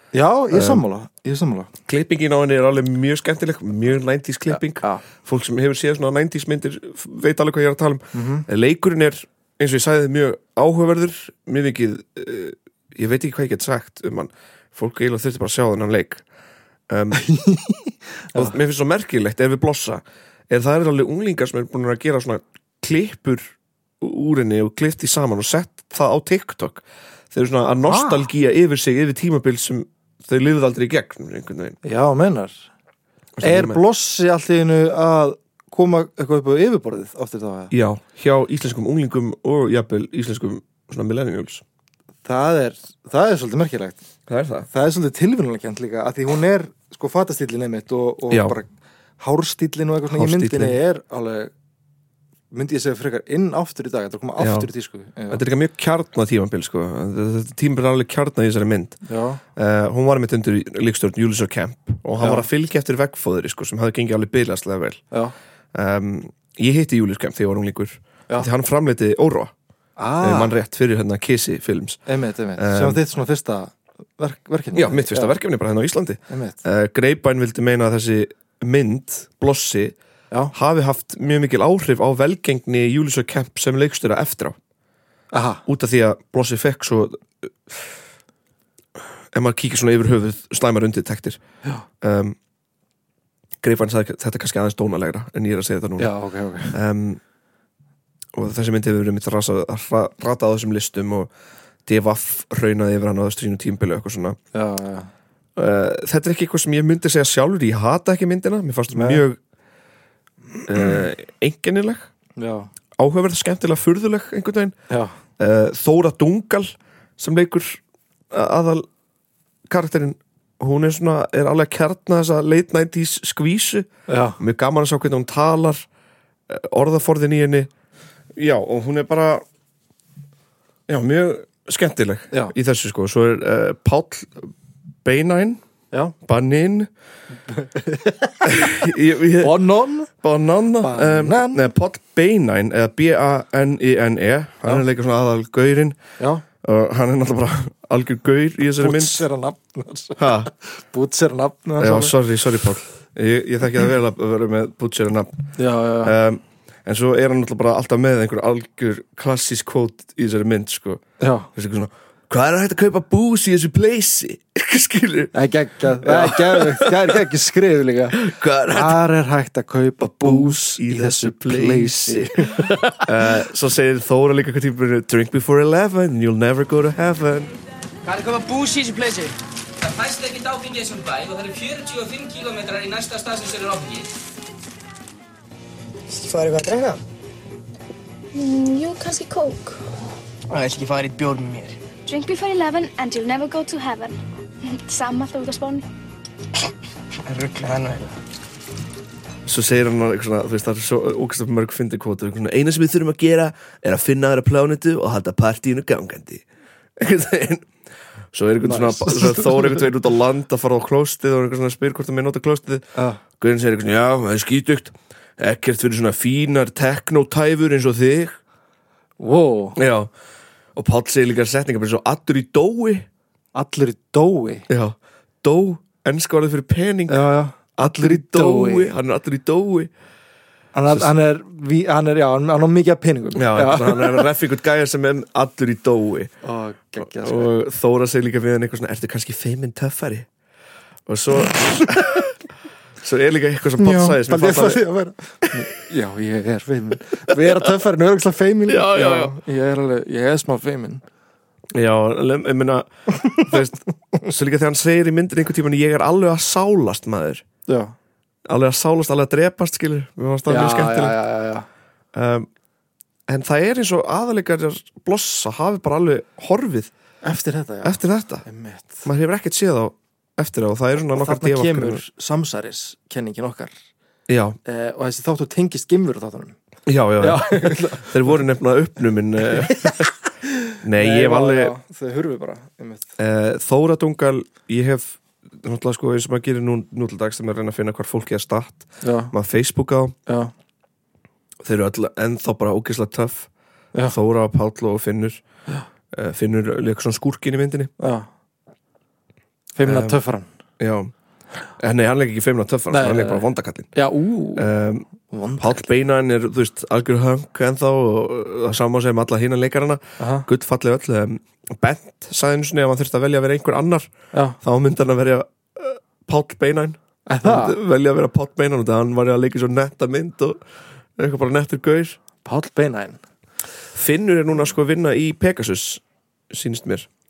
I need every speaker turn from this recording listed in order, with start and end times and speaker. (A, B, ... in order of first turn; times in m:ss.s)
0:00.1-0:01.7 A
0:00.5-0:00.8 B
0:01.9-0:16.2 B
0:04.5-0:05.0 A
0:08.1-0:08.5 A
0:16.9-0:17.2 B
0:17.2-0:18.5 A
0:18.3-0:31.8 B
0:27.9-0:28.3 A
0:31.8-0:32.7 A
0:33.4-0:33.8 B
0:33.4-0:37.7 A
0:37.7-0:41.6 B
0:42.2-0:44.0 A
0:44.3-0:44.7 B
0:44.7-0:51.5 A
0:48.3-0:48.6 B
0:50.1-0:50.8 B
0:52.5-0:55.4 A
0:54.4-0:54.7 B
0:55.3-0:59.0 B
0:59.1-0:59.4 A
0:59.6-1:05.0 B
1:02.2-1:02.5 A
1:05.7-1:09.5 B
1:10.0-1:10.5 A
1:10.2-1:12.0 B
1:12.1-1:15.4 A
1:12.6-1:13.0 B
1:14.7-1:20.0 B
1:16.3-1:16.6 A
1:20.5-1:24.6 B
1:25.3-1:25.6 A
1:25.7-1:27.9 B
1:29.0-1:31.4 B
1:32.0-1:32.4 B
1:33.6-1:36.1 B
1:36.0-1:36.8 A
1:36.7-1:37.2 B
1:38.4-1:41.3 B
1:41.9-1:44.4 B
1:44.5-1:45.1 A
1:45.6-1:49.4 B
1:48.9-1:49.2 A
1:50.7-1:52.1 B
1:52.4-1:52.7 A
1:53.0-1:54.8 B
1:54.9-1:55.2 A
1:55.4-1:58.9 B
1:59.7-2:05.9 B
2:04.1-2:04.4 A
2:06.5-2:07.7 B
2:08.4-2:09.4 B
2:10.9-2:14.5 B
2:15.0-2:15.6 B
2:16.2-2:16.9 B
2:17.5-2:18.6 A
2:18.4-2:26.0 B
2:19.4-2:20.1 A
2:20.8-2:21.6 A
2:26.2-2:26.4 A
2:26.6-2:29.2 B
2:28.8-2:32.2 A
2:30.2-2:30.5 B
2:31.8-2:41.0 B
2:35.6-2:36.2 A
2:41.2-2:41.5 A
2:41.6-2:45.3 B
2:45.3-2:52.7 A
2:46.0-2:47.2 B
2:48.2-2:49.0 B
2:50.0-2:57.5 B
2:58.1-2:59.3 C
2:59.8-3:04.1 D
3:06.1-3:07.0 C
3:08.4-3:09.8 E
3:10.5-3:11.8 C
3:12.1-3:15.8 E
3:17.3-3:18.2 C
3:19.5-3:26.4 B
3:27.0-3:27.7 B
3:28.3-3:32.8 B
3:28.6-3:29.8 A
3:33.0-3:33.2 A
3:33.4-3:38.4 B
3:39.2-3:39.8 A
3:39.8-3:40.1 B
3:40.8-3:43.1 B
3:43.6-3:44.7 A
3:44.7-3:47.2 B
3:47.1-3:48.9 A
3:47.8-3:49.9 B
3:50.7-3:54.3 A
3:53.4-3:56.3 B
3:56.4-3:57.5 A
3:57.0-4:00.3 B
4:01.1-4:02.3 B
4:03.0-4:04.8 B
4:03.8-4:11.0 A
4:08.7-4:09.4 B
4:11.8-4:17.5 B
4:17.7-4:18.0 A
4:18.5-4:21.2 B
4:20.5-4:21.7 A
4:22.1-4:22.5 B
4:23.3-4:26.9 B
4:27.2-4:29.1 A
4:27.8-4:28.4 B
4:29.0-4:32.0 B
4:31.0-4:33.8 A
4:34.3-4:34.6 B
4:34.6-4:36.6 A
4:36.9-4:40.1 B
4:37.2-4:38.4 A
4:39.5-4:40.1 A
4:40.7-4:43.1 A
4:40.8-4:41.8 B
4:43.2-4:50.2 B
4:49.0-4:49.3 A
4:50.3-4:50.5 A
4:51.6-4:53.5 B
4:54.1-4:55.4 B
4:56.1-4:57.9 B
4:58.0-4:58.3 A
4:59.8-5:00.5 A
4:59.8-5:00.2 B
5:00.8-5:01.1 B
5:01.8-5:03.9 B
5:02.9-5:04.7 A
5:04.6-5:05.1 B
5:05.3-5:05.9 A
5:05.6-5:20.6 B
5:10.2-5:10.5 A
5:17.3-5:17.8 A
5:21.2-5:22.2 B
5:22.4-5:23.2 A
5:23.9-5:27.1 B